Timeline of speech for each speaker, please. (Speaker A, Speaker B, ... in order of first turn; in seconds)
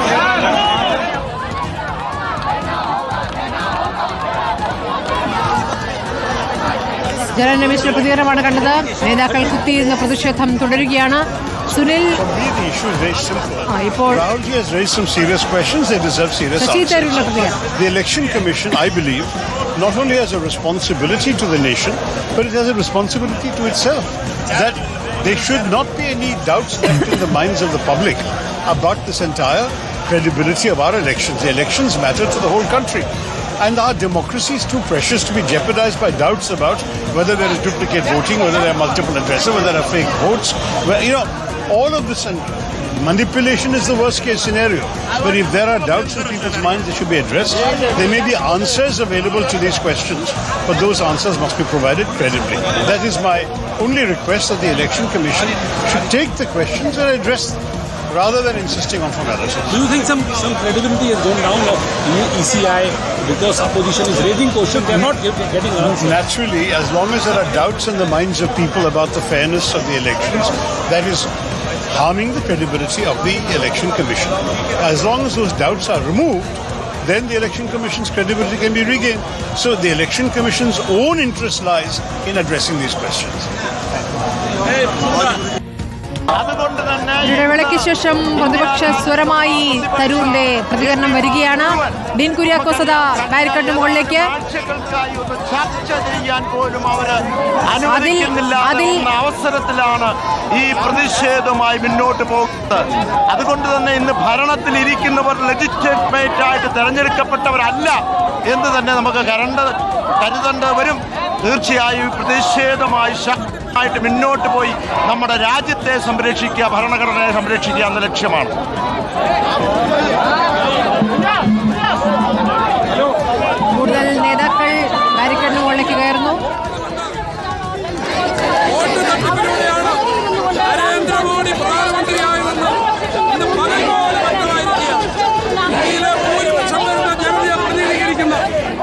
Speaker A: 7.3-12.2, 13.7-14.2, 16.6-17.6, 87.2-94.3, 97.8-99.1, 123.7-126.4
Speaker B: 12.2-33.1, 33.6-59.8, 65.8-71.3, 71.9-83.5
Speaker C: 59.7-66.2
Speaker D: 86.3-118.5
Speaker E: 129.0-129.9, 130.7-132.8, 133.3-135.0, 135.8-138.4